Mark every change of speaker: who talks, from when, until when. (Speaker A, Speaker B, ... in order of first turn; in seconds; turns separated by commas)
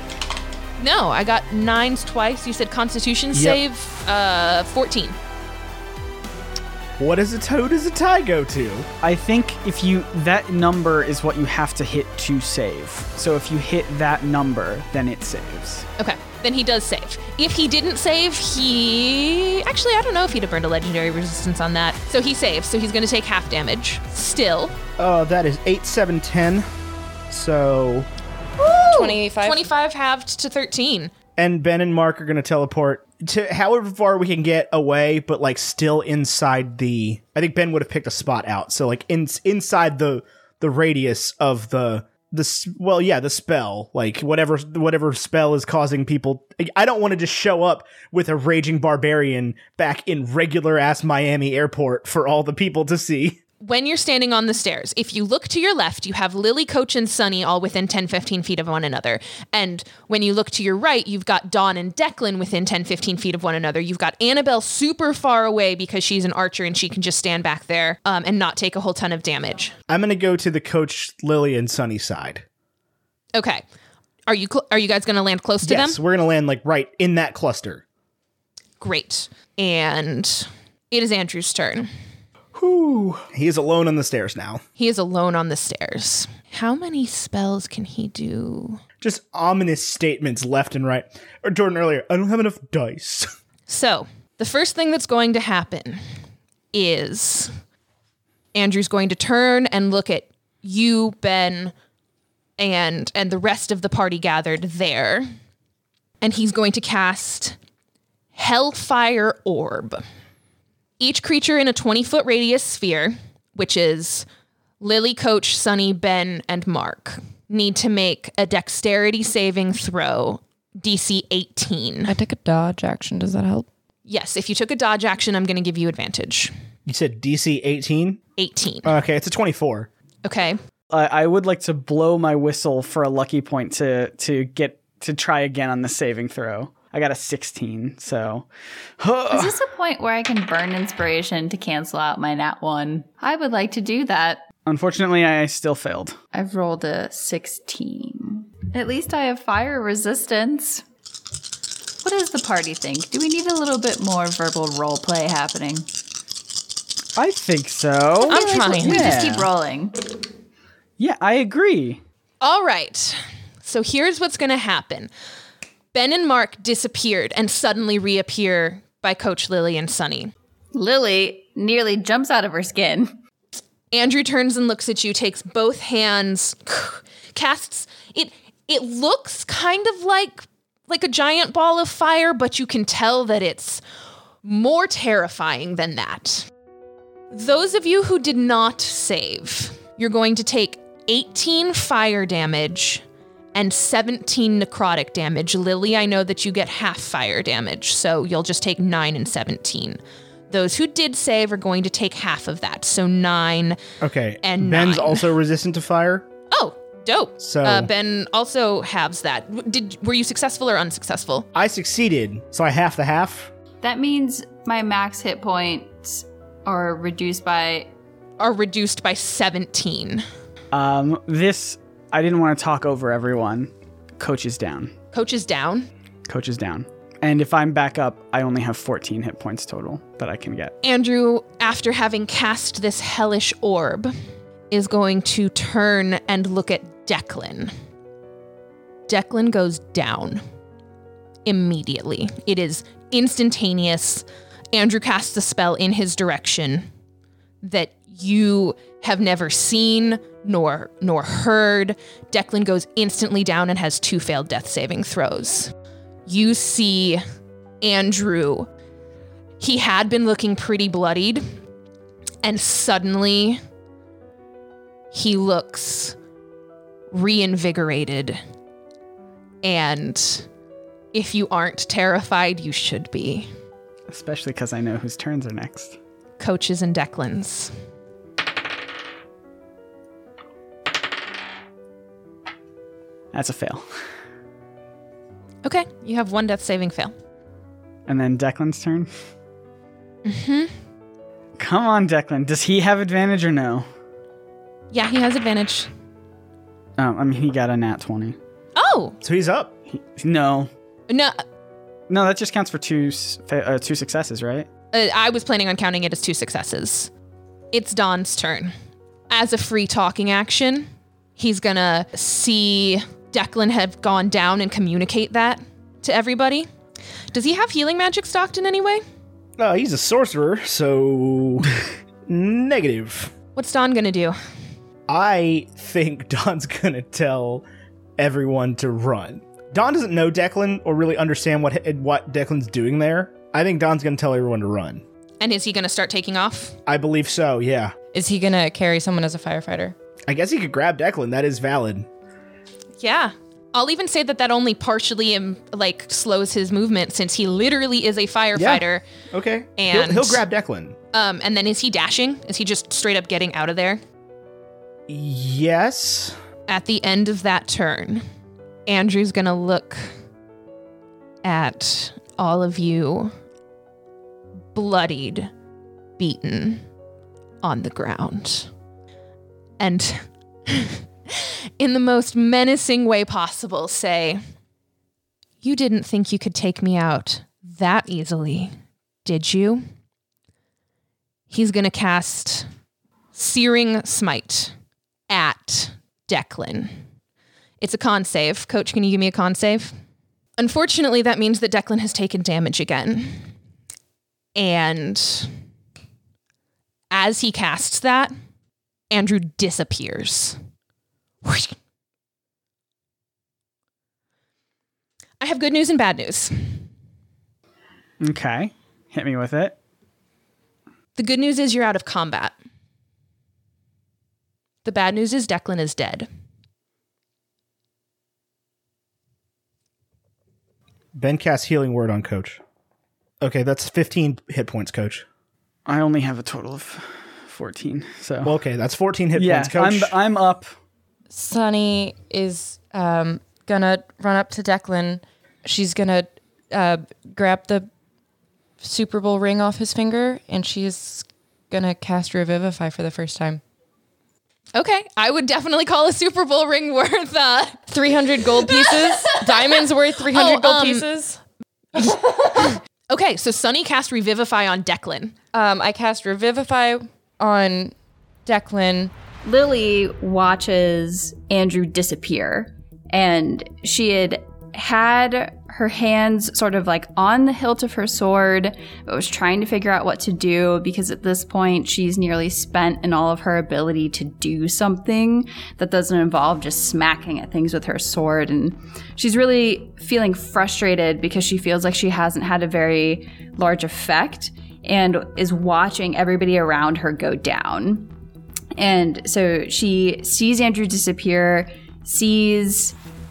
Speaker A: 0.8-5.2, Speaker B: 3.3-3.6, Speaker B: 7.0-8.9, Speaker C: 9.0-15.8, Speaker A: 16.0-24.7, Speaker B: 25.0-26.7, Speaker B: 27.3-28.1, Speaker A: 28.6-31.1, Speaker D: 28.8-29.6, Speaker B: 31.4-53.4, Speaker A: 53.6-69.7, Speaker B: 69.9-72.4, Speaker A: 73.3-73.6, Speaker A: 74.3-76.0, Speaker B: 75.6-77.8, Speaker A: 78.8-81.9, Speaker B: 82.5-84.6, Speaker A: 84.8-88.8, Speaker B: 89.0-93.3, Speaker A: 93.7-96.0, Speaker A: 96.7-97.5, Speaker A: 98.5-101.7, Speaker A: 102.6-105.3, Speaker A: 106.2-107.6, Speaker A: 108.3-110.0, Speaker A: 111.0-114.2, Speaker A: 114.8-122.2, Speaker D: 122.1-123.7, Speaker A: 124.0-126.5, Speaker B: 126.8-128.2, Speaker A: 128.4-128.9, Speaker B: 128.8-129.9, Speaker A: 130.2-130.6, Speaker C: 130.9-138.4, Speaker C: 139.0-139.6, Speaker E: 139.3-144.4, Speaker C: 144.7-146.2, Speaker E: 146.3-150.8, Speaker E: 152.0-155.9, Speaker C: 157.2-159.5, Speaker D: 158.2-159.2, Speaker E: 158.3-160.0, Speaker C: 161.0-162.0, Speaker A: 162.4-165.1, Speaker A: 165.9-170.3, Speaker E: 170.7-173.1, Speaker A: 173.9-183.8, Speaker A: 184.4-186.5, Speaker A: 187.3-193.0, Speaker A: 193.5-200.0, Speaker A: 200.5-203.8, Speaker B: 204.0-206.2, Speaker A: 204.4-205.3, Speaker A: 206.5-211.4, Speaker B: 207.4-207.9, Speaker B: 211.5-213.5, Speaker E: 213.8-217.9, Speaker A: 218.4-220.2, Speaker C: 220.7-224.9, Speaker A: 225.1-225.9, Speaker C: 226.3-230.7, Speaker A: 230.8-234.1, Speaker A: 234.7-237.7, Speaker A: 239.1-240.4, Speaker A: 241.4-246.9, Speaker A: 247.6-255.7, Speaker A: 256.2-257.2, Speaker A: 257.8-258.7, Speaker A: 259.6-261.4, Speaker A: 262.4-263.6, Speaker A: 265.1-266.1, Speaker A: 267.1-268.4, Speaker A: 269.6-270.5, Speaker A: 271.1-273.5, Speaker C: 274.1-275.9, Speaker A: 276.4-277.7, Speaker C: 283.3-283.8, Speaker A: 285.6-287.1, Speaker C: 288.1-289.1, Speaker A: 290.2-290.7, Speaker C: 291.6-293.9, Speaker A: 294.9-295.9, Speaker C: 297.0-298.4, Speaker A: 298.8-299.2, Speaker B: 299.2-299.7, Speaker C: 299.9-300.7, Speaker A: 301.1-301.4, Speaker C: 302.1-304.7, Speaker A: 304.9-307.1, Speaker A: 307.7-308.7, Speaker A: 309.3-316.7, Speaker A: 317.3-319.0, Speaker B: 319.6-321.7, Speaker B: 322.3-323.3, Speaker A: 323.6-324.4, Speaker B: 325.1-327.6, Speaker B: 328.2-335.0, Speaker A: 335.4-336.8, Speaker B: 336.9-337.9, Speaker D: 338.1-339.9, Speaker B: 340.3-342.1, Speaker A: 343.0-349.0, Speaker B: 348.5-350.9, Speaker A: 349.8-350.4, Speaker A: 351.1-354.0, Speaker B: 355.1-356.4, Speaker A: 356.7-358.2, Speaker A: 358.9-360.0, Speaker A: 361.4-363.3, Speaker A: 364.7-365.5, Speaker A: 366.2-366.8, Speaker A: 367.6-368.7, Speaker A: 369.8-374.4, Speaker A: 375.6-378.7, Speaker A: 379.2-379.8, Speaker A: 381.5-382.7, Speaker A: 383.3-384.7, Speaker A: 385.3-386.9, Speaker A: 387.8-389.9, Speaker A: 390.6-393.5, Speaker A: 394.6-395.5, Speaker A: 397.1-398.3, Speaker A: 399.1-400.6, Speaker A: 401.4-401.7, Speaker A: 405.4-406.8, Speaker C: 408.2-409.7, Speaker A: 411.1-412.5, Speaker A: 414.8-416.3, Speaker B: 421.1-422.6, Speaker B: 423.4-425.2, Speaker C: 425.9-428.6, Speaker B: 428.4-430.1, Speaker C: 429.3-430.7, Speaker D: 431.3-437.9, Speaker D: 438.8-443.6, Speaker A: 444.7-447.9, Speaker D: 447.9-451.4, Speaker A: 448.4-451.1, Speaker D: 451.9-452.7, Speaker A: 451.9-455.3, Speaker D: 455.5-457.9, Speaker D: 458.4-459.1, Speaker E: 459.4-488.1, Speaker E: 488.8-492.9